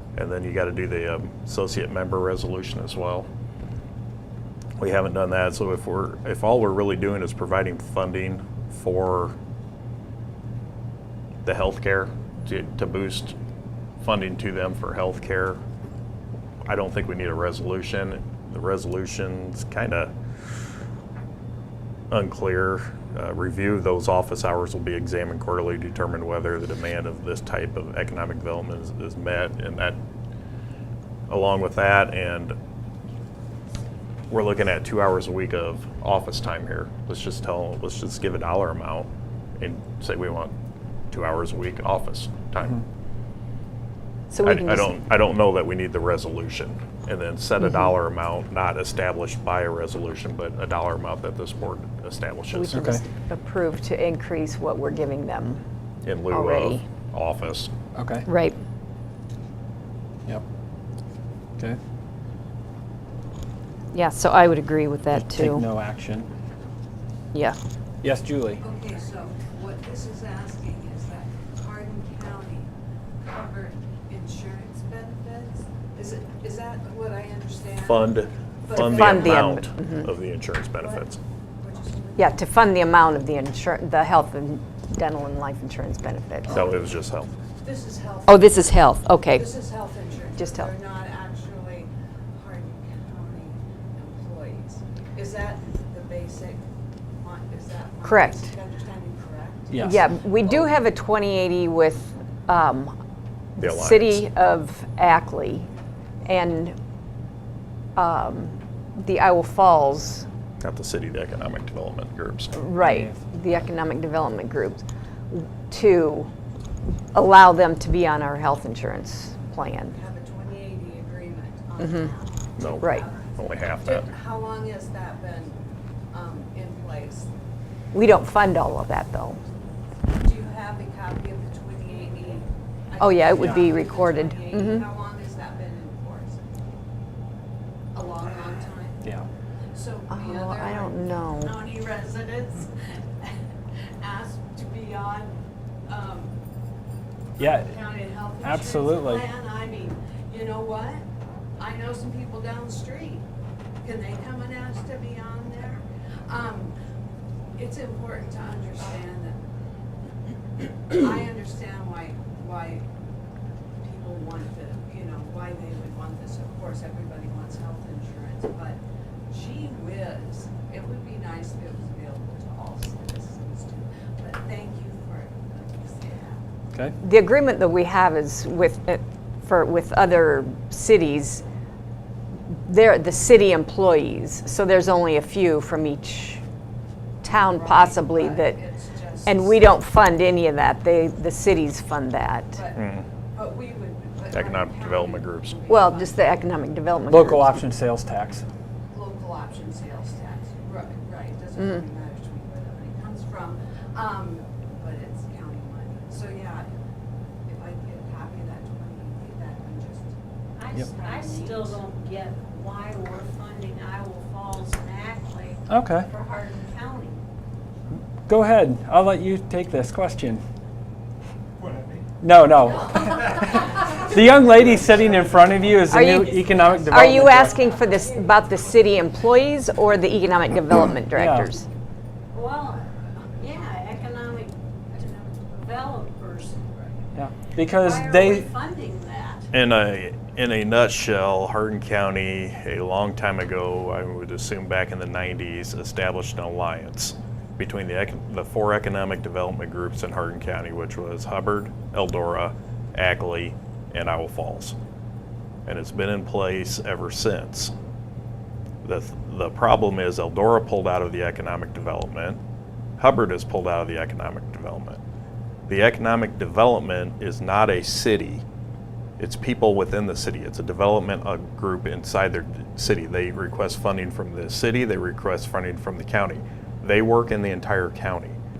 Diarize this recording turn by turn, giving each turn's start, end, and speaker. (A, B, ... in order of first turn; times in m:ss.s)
0:00.1-0:03.3 A
0:04.8-0:09.3 A
0:11.4-0:13.3 A
0:14.0-0:15.6 A
0:16.6-0:20.1 A
0:22.1-0:30.0 A
0:31.3-0:32.6 A
0:34.3-0:40.5 A
0:41.1-0:42.8 A
0:44.3-0:44.9 B
0:44.4-0:52.8 A
0:52.5-0:55.6 B
0:52.7-0:53.0 C
0:56.0-0:57.7 A
0:56.3-0:56.8 B
0:57.9-0:58.3 C
0:58.3-0:58.6 B
1:03.9-1:05.6 B
1:05.1-1:06.3 C
1:07.3-1:07.6 B
1:08.0-1:08.6 C
1:08.6-1:12.7 D
1:13.2-1:18.1 D
1:17.8-1:21.2 A
1:18.6-1:19.6 D
1:18.8-1:20.1 B
1:20.8-1:21.1 D
1:21.6-1:22.4 D
1:22.2-1:26.6 B
1:26.5-1:27.3 A
1:27.6-1:28.8 D
1:28.3-1:29.4 B
1:29.3-1:36.6 D
1:30.4-1:30.7 B
1:37.2-1:39.9 D
1:38.0-1:38.5 B
1:39.7-1:40.1 C
1:39.8-1:42.9 B
1:43.6-1:45.7 B
1:43.6-1:44.3 A
1:46.2-1:46.7 B
1:48.0-1:50.2 B
1:50.6-1:52.6 A
1:52.5-1:56.3 B
1:52.8-1:53.2 C
1:57.1-2:00.0 B
1:59.9-2:07.3 D
2:01.8-2:02.1 B
2:02.6-2:04.1 A
2:02.8-2:03.0 B
2:07.9-2:09.4 B
2:10.2-2:16.4 D
2:13.0-2:14.8 B
2:13.4-2:13.7 C
2:17.9-2:19.0 D
2:19.7-2:23.4 D
2:20.1-2:21.5 B
2:24.0-2:25.3 D
2:25.9-2:26.3 D
2:27.4-2:31.0 D
2:27.4-2:27.9 C
2:28.4-2:29.2 C
2:31.6-2:33.2 D
2:33.8-2:36.7 D
2:37.6-2:39.4 D
2:40.6-2:42.8 D
2:43.8-2:56.4 D
2:57.0-3:01.4 B
3:02.5-3:06.4 B
3:07.2-3:08.6 B
3:07.2-3:09.8 D
3:09.2-3:12.6 B
3:12.5-3:16.4 D
3:12.8-3:13.0 A
3:14.3-3:15.6 A
3:15.7-3:17.6 B
3:17.1-3:18.4 C
3:18.9-3:26.7 D
3:27.5-3:30.1 D
3:30.6-3:37.2 E
3:30.8-3:31.9 D
3:35.7-3:36.1 C
3:38.3-3:40.4 C
3:42.2-3:47.6 C
3:43.3-3:44.7 D
3:45.9-3:51.6 B
3:46.0-3:48.7 E
3:47.8-3:48.1 D
3:51.1-3:51.5 C
3:52.3-3:52.8 E
3:53.0-3:53.7 D
3:53.4-3:56.6 E
3:54.9-3:55.8 D
3:57.1-3:58.5 C
3:57.7-3:59.5 E
3:59.5-4:14.8 A
4:15.6-4:17.7 A
4:18.8-4:22.4 A
4:23.0-4:25.0 A
4:25.7-4:28.4 A
4:29.2-4:38.4 A